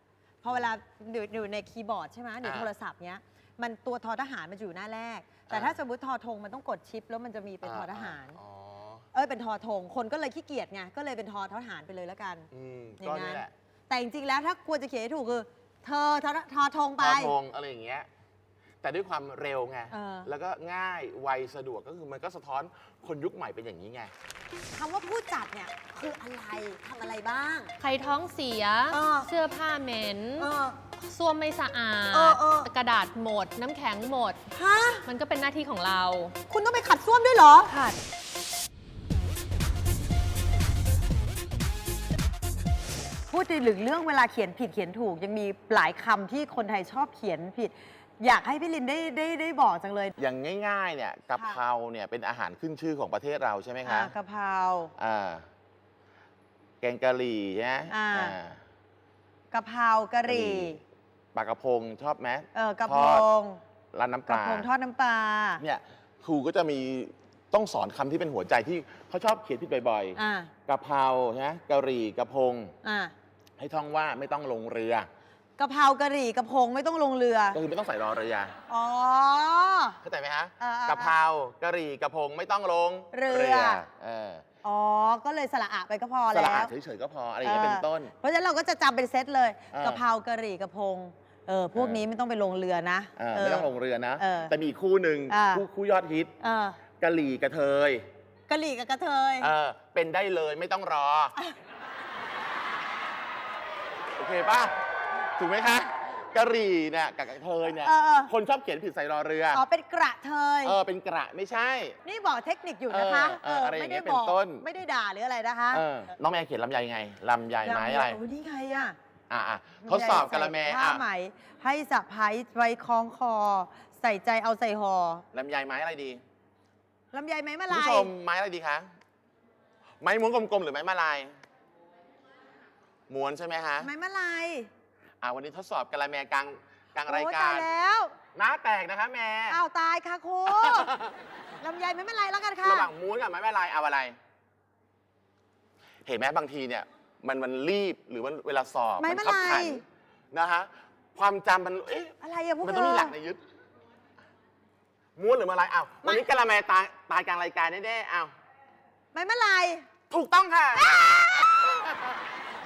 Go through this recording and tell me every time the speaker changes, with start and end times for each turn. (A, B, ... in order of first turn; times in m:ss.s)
0:00.4-0:08.4 A
0:02.4-0:02.7 B
0:05.5-0:05.8 B
0:07.6-0:09.0 B
0:09.1-0:17.4 A
0:12.5-0:13.5 B
0:17.0-0:18.1 B
0:18.8-0:24.1 B
0:19.9-0:20.3 A
0:24.7-0:27.7 A
0:27.8-0:30.4 C
0:28.9-0:29.3 A
0:30.4-0:30.8 A
0:31.0-0:34.4 C
0:32.1-0:32.7 A
0:34.5-0:35.1 A
0:35.0-0:36.3 C
0:36.5-0:38.0 A
0:43.3-0:50.1 A
0:50.2-0:54.1 B
0:51.3-0:51.6 A
0:53.8-0:54.9 A
0:55.0-0:55.4 B
0:56.8-0:58.6 B
0:57.9-0:58.4 A
0:59.5-1:00.8 A
1:00.3-1:00.8 B
1:01.3-1:03.3 B
1:02.5-1:03.6 A
1:03.9-1:04.7 B
1:04.3-1:05.6 A
1:05.6-1:12.7 B
1:10.1-1:10.5 A
1:12.8-1:13.1 A
1:13.6-1:15.1 B
1:15.6-1:17.6 A
1:17.5-1:18.6 B
1:18.7-1:20.0 A
1:20.0-1:24.4 B
1:20.6-1:21.1 A
1:23.1-1:23.8 A
1:24.6-1:26.7 A
1:26.3-1:28.1 B
1:27.4-1:34.5 A
1:29.7-1:30.0 B
1:31.8-1:32.0 B
1:33.2-1:36.3 B
1:35.3-1:35.6 A
1:36.4-1:36.8 A
1:37.0-1:38.1 B
1:38.5-1:39.5 A
1:39.4-1:41.3 B
1:44.2-1:44.8 B
1:45.4-1:49.6 B
1:47.8-1:48.3 A
1:49.5-1:50.8 A
1:50.6-1:52.0 B
1:52.0-1:55.8 A
1:52.9-1:54.6 B
1:55.7-1:58.2 B
1:57.6-1:59.0 A
1:59.3-2:01.0 B
1:59.8-2:05.2 A
2:05.3-2:06.2 B
2:07.1-2:08.1 A
2:07.7-2:08.9 B
2:10.0-2:11.4 B
2:13.1-2:13.9 B
2:13.8-2:14.7 A
2:15.2-2:17.7 B
2:17.0-2:18.1 A
2:18.3-2:19.6 B
2:19.5-2:20.9 A
2:20.5-2:21.1 B
2:21.6-2:22.9 A
2:22.6-2:24.2 B
2:26.0-2:33.4 B
2:29.0-2:29.8 A
2:32.2-2:33.1 A
2:35.2-2:38.3 B
2:39.1-2:39.9 A
2:40.1-2:42.2 B
2:40.8-2:41.8 A